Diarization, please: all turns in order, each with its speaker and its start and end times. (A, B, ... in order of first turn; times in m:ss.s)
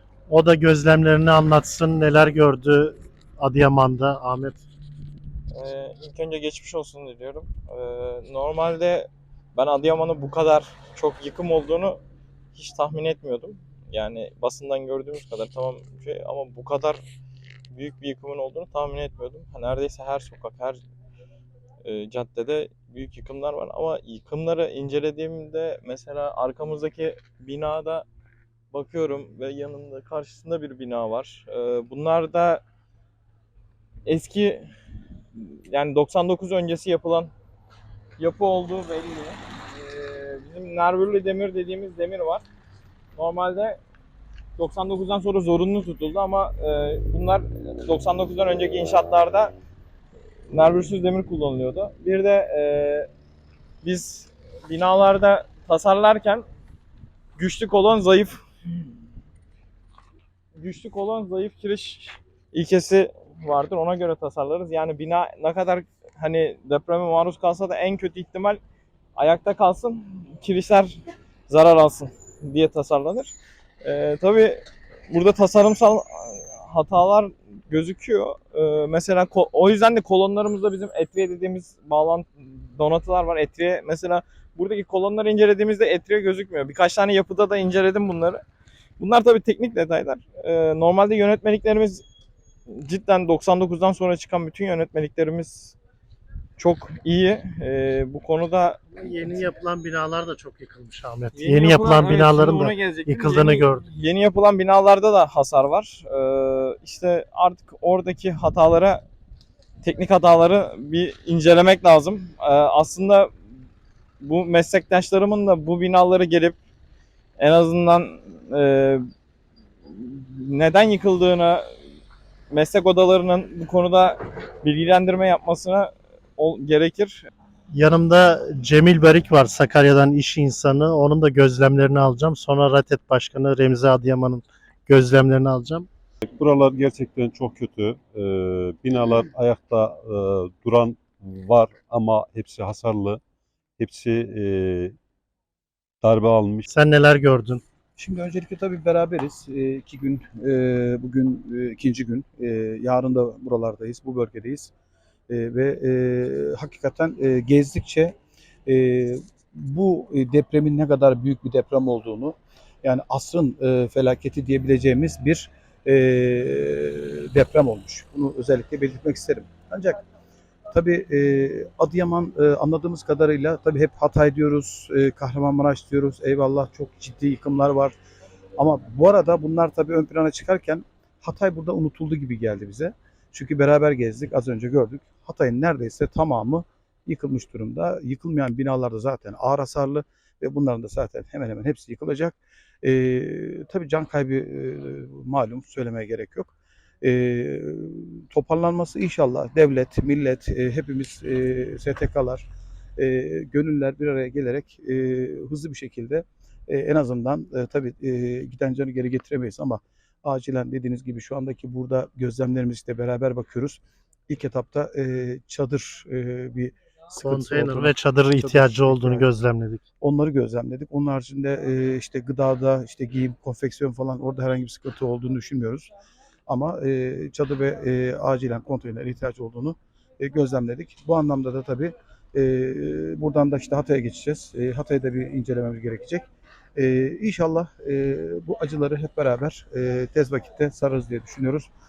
0:00.3-0:04.6 A
0:05.5-0:12.0 B
0:12.5-0:17.0 B
0:17.7-0:20.8 B
0:21.8-0:28.0 B
0:28.7-0:32.6 B
0:34.0-0:34.7 B
0:35.4-0:37.3 B
0:38.2-0:42.4 B
0:43.2-0:43.8 B
0:44.6-0:49.6 B
0:50.5-0:53.1 B
0:53.8-0:56.4 B
0:57.4-0:58.9 B
1:00.6-1:08.6 B
1:09.2-1:28.4 B
1:29.0-1:32.0 B
1:32.7-1:35.8 B
1:36.6-1:38.9 B
1:38.9-1:43.8 A
1:41.3-1:49.0 B
1:49.8-1:53.3 B
1:54.2-1:56.6 B
1:57.4-1:59.0 B
1:59.9-2:01.6 B
2:02.5-2:07.3 B
2:07.7-2:15.9 A
2:16.3-2:23.2 C
2:23.8-2:25.0 C
2:26.0-2:26.6 C
2:26.7-2:27.6 A
2:28.0-2:34.7 D
2:35.3-2:38.2 D
2:38.7-2:50.0 D
2:50.7-2:57.9 D
2:58.6-3:22.5 D
3:23.0-3:39.3 D
3:37.2-3:39.8 A
3:40.0-3:45.9 D
3:46.5-4:01.7 D